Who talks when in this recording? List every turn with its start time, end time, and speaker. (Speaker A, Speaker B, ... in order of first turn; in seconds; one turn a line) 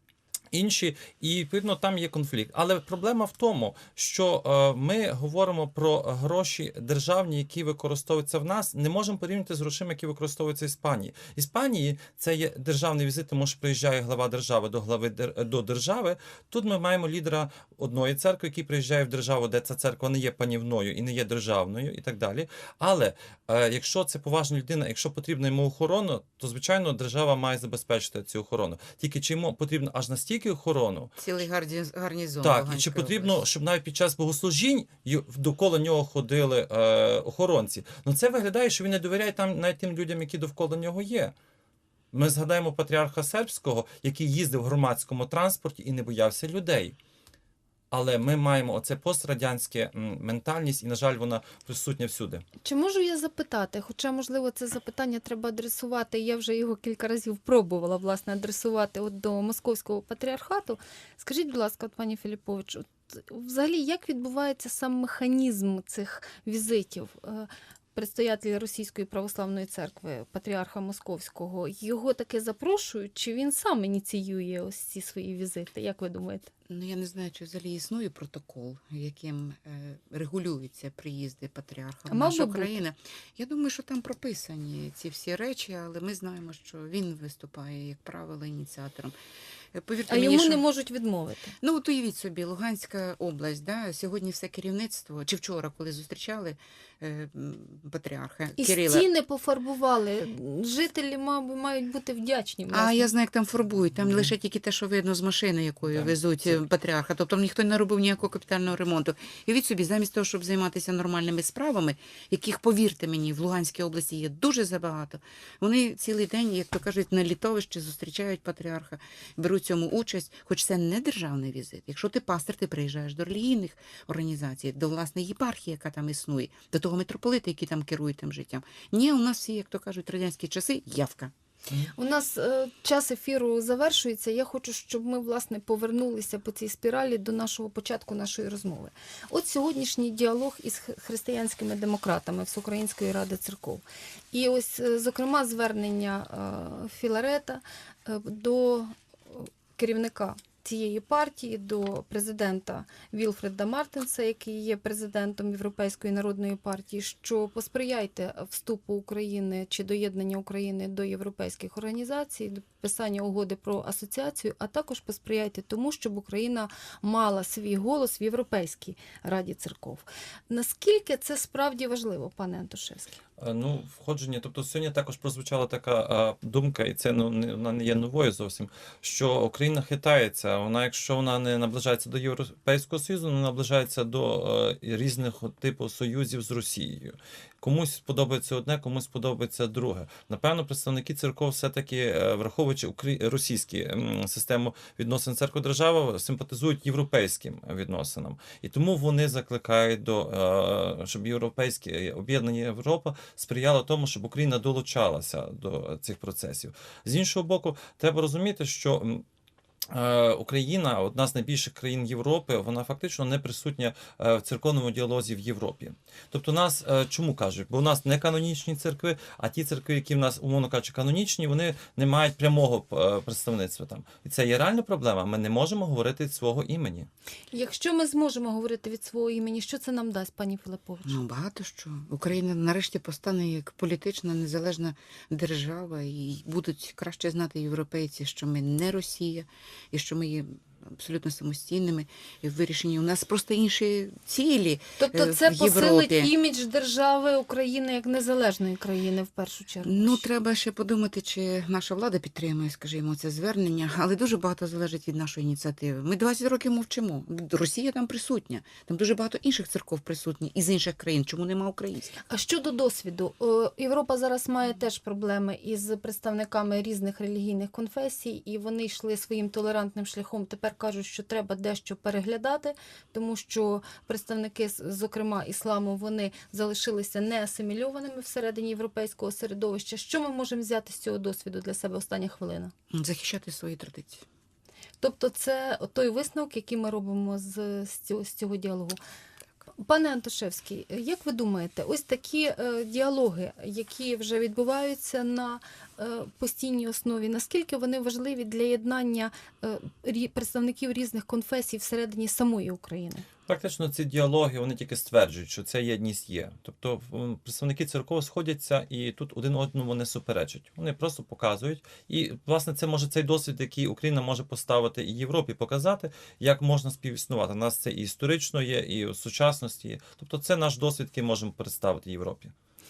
Speaker A: 0.5-31.1
Speaker B: 31.2-33.4
Speaker A: 32.4-41.3
Speaker A: 42.1-46.9
Speaker A: 47.9-52.4
Speaker C: 52.6-76.5
Speaker B: 76.7-89.1
Speaker C: 82.1-82.8
Speaker B: 89.7-90.6
Speaker C: 90.1-91.5
Speaker B: 91.6-99.1
Speaker C: 98.5-103.1
Speaker B: 102.7-131.3
Speaker A: 105.9-106.6
Speaker C: 131.9-173.2
Speaker A: 173.4-209.2
Speaker A: 209.9-227.1
Speaker C: 227.5-231.2
Speaker B: 231.1-246.3
Speaker C: 245.0-250.3
Speaker B: 249.8-262.1
Speaker C: 262.3-282.7
Speaker B: 282.9-284.2
Speaker C: 285.0-289.0
Speaker C: 289.8-303.2
Speaker A: 303.5-322.5